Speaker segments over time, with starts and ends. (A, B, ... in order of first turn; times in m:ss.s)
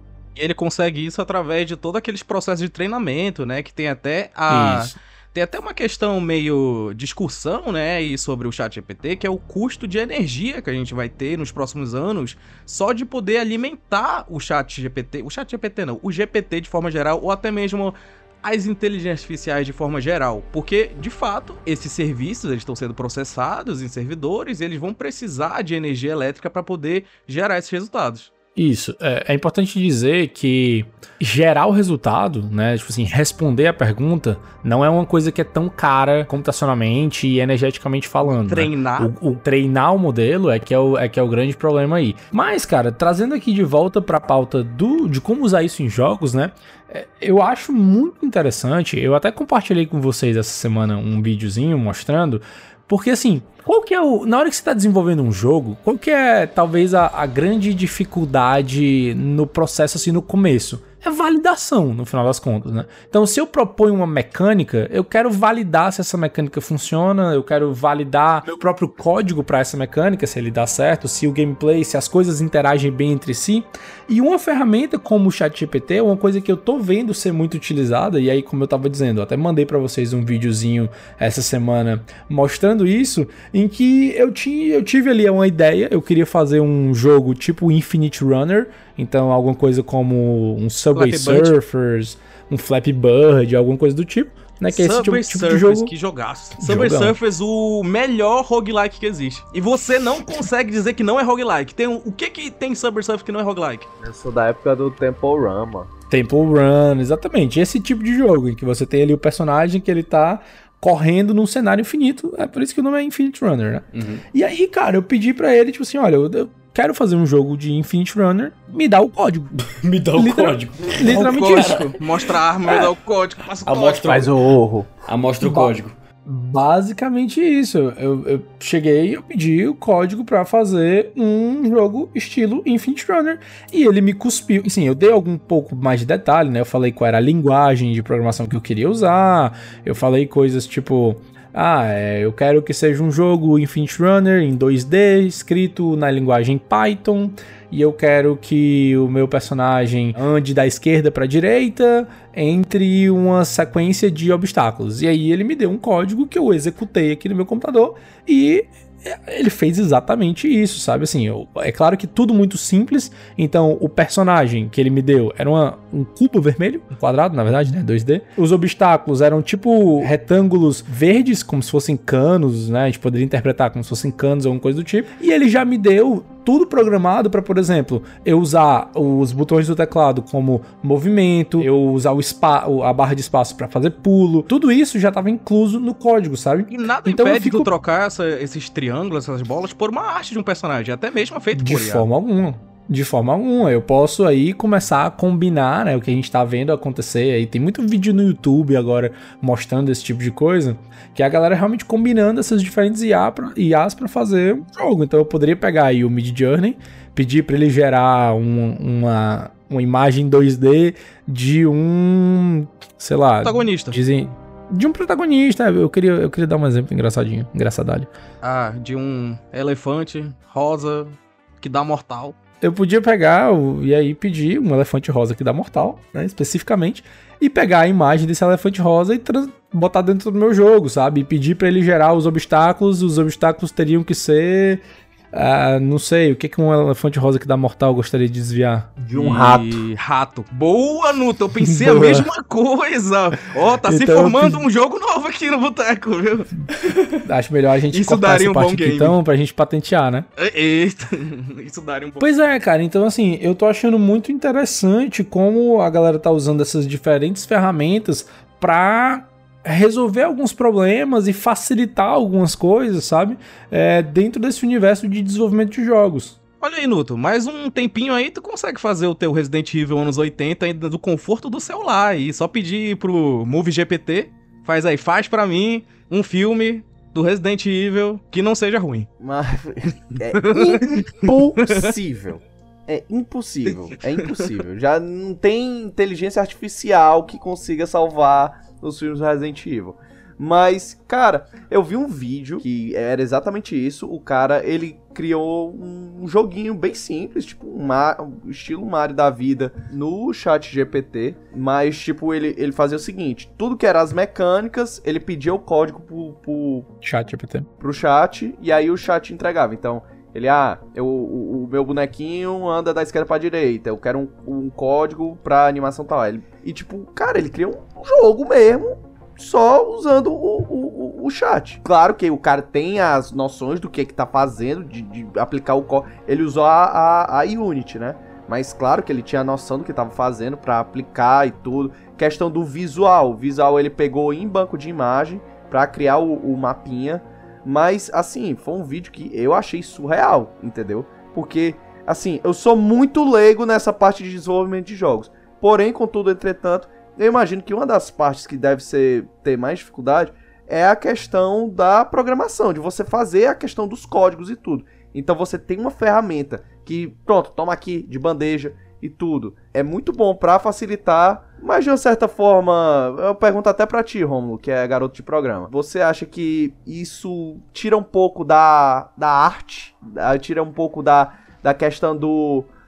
0:00.4-0:28.3 A
0:04.5-0:05.0 B
0:28.6-1:35.9 B
0:38.2-0:39.1 A
1:30.9-1:31.6 A
1:34.7-1:43.9 A
1:36.6-1:37.2 B
1:44.0-1:45.9 C
1:46.1-1:59.5 B
1:53.9-1:54.2 D
1:59.6-2:02.0 D
2:00.1-2:01.9 B
2:01.0-2:04.3 A
2:03.6-2:06.0 D
2:05.4-2:05.7 B
2:06.2-3:07.7 B
3:06.7-3:12.0 A
3:11.5-3:38.1 B
3:33.4-3:34.0 A
3:38.4-3:42.4 A
3:42.6-3:59.8 B
3:59.1-4:07.2 A
4:01.7-4:02.3 B
4:03.8-4:04.6 B
4:07.2-4:10.3 B
4:07.9-4:09.2 A
4:10.4-4:12.2 A
4:12.2-4:26.4 B
4:26.6-4:39.1 A
4:39.2-5:06.9 C
4:40.3-4:41.9 A
5:07.0-5:07.7 B
5:07.8-6:12.7 C